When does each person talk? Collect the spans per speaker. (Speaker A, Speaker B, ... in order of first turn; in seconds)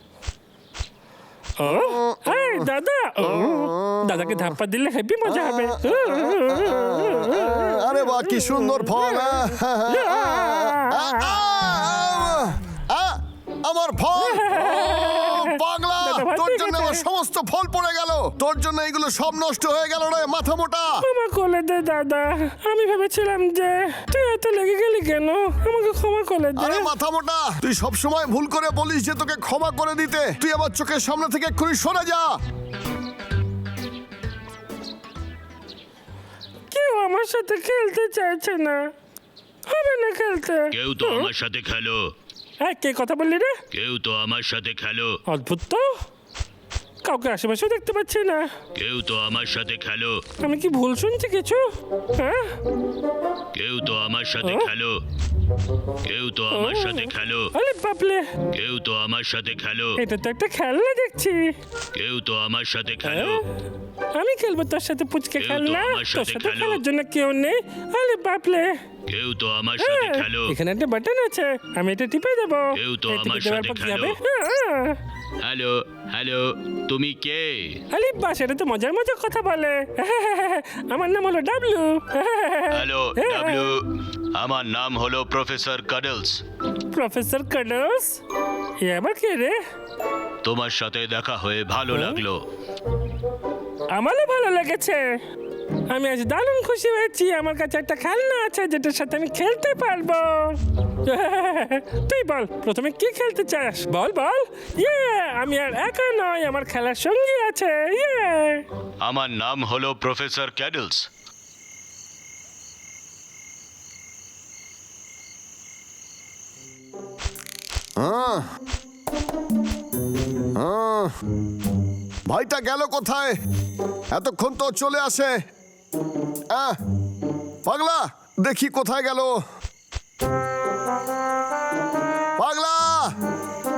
Speaker A: 1.6-11.3, 14.2-17.0, 21.0-26.9, 36.7-38.8, 39.7-41.3, 42.6-43.6, 45.3-45.9, 47.0-48.5, 50.4-52.6, 54.4-54.7, 56.5-58.3, 60.0-61.5, 63.0-63.5, 64.1-68.8, 69.8-75.0, 77.9-83.7, 86.9-88.2, 88.8-89.6, 91.9-92.2, 93.9-95.0, 95.9-108.7
Speaker B: 1.7-2.7, 3.2-4.5, 5.3-21.0, 26.6-32.4, 118.0-118.5, 120.5-121.1, 122.3-123.4, 124.1-125.3, 126.5-126.8, 127.7-129.4, 132.4-133.2
Speaker C: 40.7-42.0, 43.7-45.2, 48.8-50.2, 53.5-55.0, 56.0-57.5, 58.5-60.0, 61.9-63.4, 65.4-66.8, 69.1-70.5, 72.8-74.2, 75.4-77.8, 82.7-83.8, 84.3-86.4, 90.4-92.4, 109.0-111.1